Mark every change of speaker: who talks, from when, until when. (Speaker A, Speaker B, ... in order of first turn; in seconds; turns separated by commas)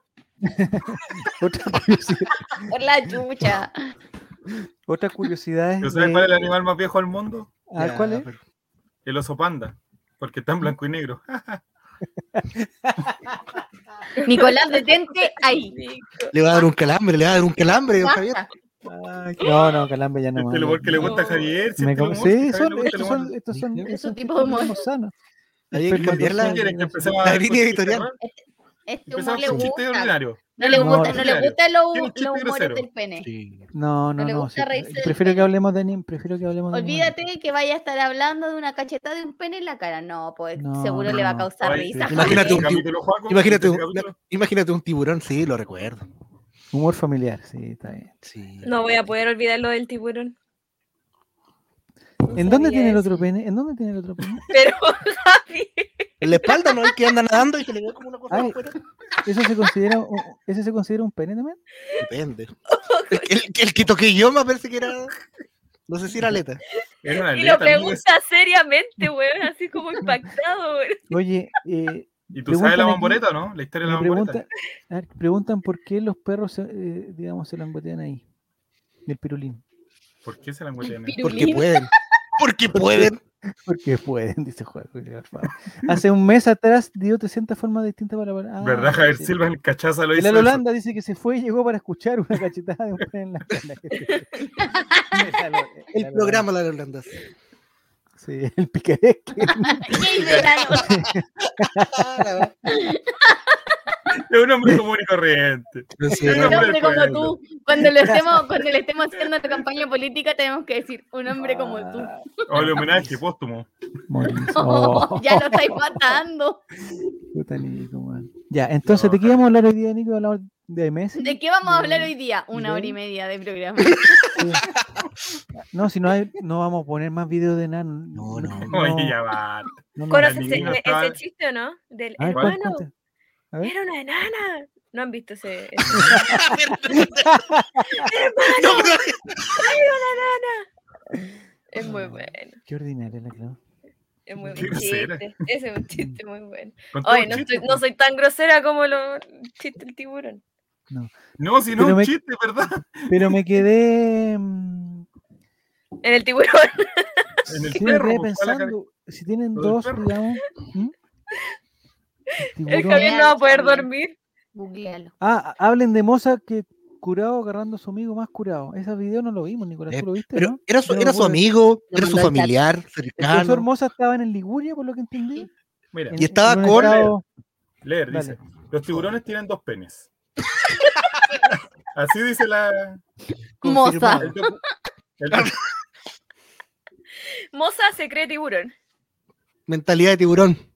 Speaker A: 0.4-2.7, Speaker B: 2.7-3.9, Speaker A: 4.9-6.3, Speaker C: 5.8-7.5, Speaker A: 7.7-8.3, Speaker D: 7.8-8.4, Speaker C: 9.1-11.6, Speaker A: 12.3-13.6, Speaker E: 14.2-16.3, Speaker B: 14.3-15.8, Speaker D: 16.3-18.4, Speaker B: 18.0-18.5, Speaker A: 18.9-21.2, Speaker C: 20.4-23.3, Speaker E: 21.0-21.6, Speaker A: 21.8-25.1, Speaker D: 23.5-23.9, Speaker B: 23.9-24.8, Speaker D: 25.7-26.7, Speaker A: 25.7-27.3, Speaker C: 26.2-28.2, Speaker D: 27.2-28.1, Speaker B: 28.2-33.3, Speaker C: 29.1-32.9, Speaker D: 29.4-29.7, Speaker A: 30.8-31.3, Speaker D: 33.2-33.7, Speaker A: 33.7-37.2, Speaker B: 34.2-35.5, Speaker B: 36.7-42.7, Speaker A: 40.6-42.1, Speaker C: 41.6-44.1, Speaker D: 42.1-46.0, Speaker E: 42.3-42.6, Speaker A: 46.7-48.1, Speaker D: 48.2-48.8, Speaker E: 48.6-50.4, Speaker E: 52.3-53.2, Speaker A: 52.4-54.4, Speaker E: 54.5-57.0, Speaker D: 56.2-58.8, Speaker A: 58.3-58.6, Speaker A: 59.2-61.6, Speaker D: 62.0-62.5, Speaker E: 62.7-63.3, Speaker D: 63.1-65.1, Speaker D: 65.9-66.6, Speaker E: 66.8-71.1, Speaker C: 67.0-68.0, Speaker A: 71.1-73.2, Speaker C: 72.3-74.4, Speaker A: 73.8-78.2, Speaker A: 79.1-79.6, Speaker C: 80.2-81.4, Speaker B: 80.8-81.9, Speaker D: 81.2-83.2, Speaker A: 82.7-89.4, Speaker C: 88.6-90.6, Speaker A: 90.2-94.4, Speaker B: 94.6-95.2, Speaker A: 95.1-96.5, Speaker D: 95.9-97.2, Speaker A: 98.2-100.0, Speaker B: 99.6-101.0, Speaker C: 100.1-100.7, Speaker A: 100.8-102.4, Speaker D: 101.8-102.5, Speaker B: 102.7-103.6, Speaker C: 104.3-107.4, Speaker D: 106.0-106.7, Speaker B: 106.2-112.3, Speaker A: 111.3-113.2, Speaker C: 112.5-113.7, Speaker A: 114.1-116.2, Speaker B: 114.5-116.6, Speaker A: 117.3-123.0, Speaker C: 118.9-119.4, Speaker B: 121.2-124.5, Speaker A: 124.3-124.7, Speaker A: 125.5-129.2, Speaker D: 128.2-128.7, Speaker C: 128.7-131.2, Speaker A: 130.0-130.8, Speaker E: 130.1-132.9, Speaker A: 132.2-132.9, Speaker E: 133.6-136.2, Speaker A: 135.9-138.1, Speaker D: 135.9-137.5, Speaker E: 137.9-139.0, Speaker D: 138.4-139.8, Speaker E: 139.5-140.7, Speaker E: 141.7-142.6, Speaker A: 141.8-143.6, Speaker E: 144.3-150.4, Speaker A: 144.4-144.7, Speaker C: 144.5-145.3, Speaker C: 146.9-147.7, Speaker A: 147.2-147.8, Speaker C: 151.4-153.4, Speaker A: 151.8-152.1, Speaker A: 153.1-155.1, Speaker E: 156.0-157.8, Speaker C: 157.5-158.7, Speaker A: 157.5-160.9, Speaker C: 159.6-160.1, Speaker A: 162.4-163.3, Speaker E: 162.7-164.2, Speaker B: 162.8-163.9, Speaker B: 164.5-165.1, Speaker A: 165.2-171.4, Speaker D: 169.9-173.7, Speaker B: 171.9-172.5, Speaker A: 173.2-175.5, Speaker C: 175.9-177.2, Speaker A: 176.1-177.2, Speaker D: 176.1-177.1, Speaker C: 177.8-180.1, Speaker A: 178.1-178.4, Speaker C: 181.9-183.0, Speaker D: 183.6-184.3, Speaker B: 183.6-184.5, Speaker C: 184.2-184.6, Speaker C: 185.2-185.6, Speaker E: 187.5-188.7, Speaker D: 189.7-190.6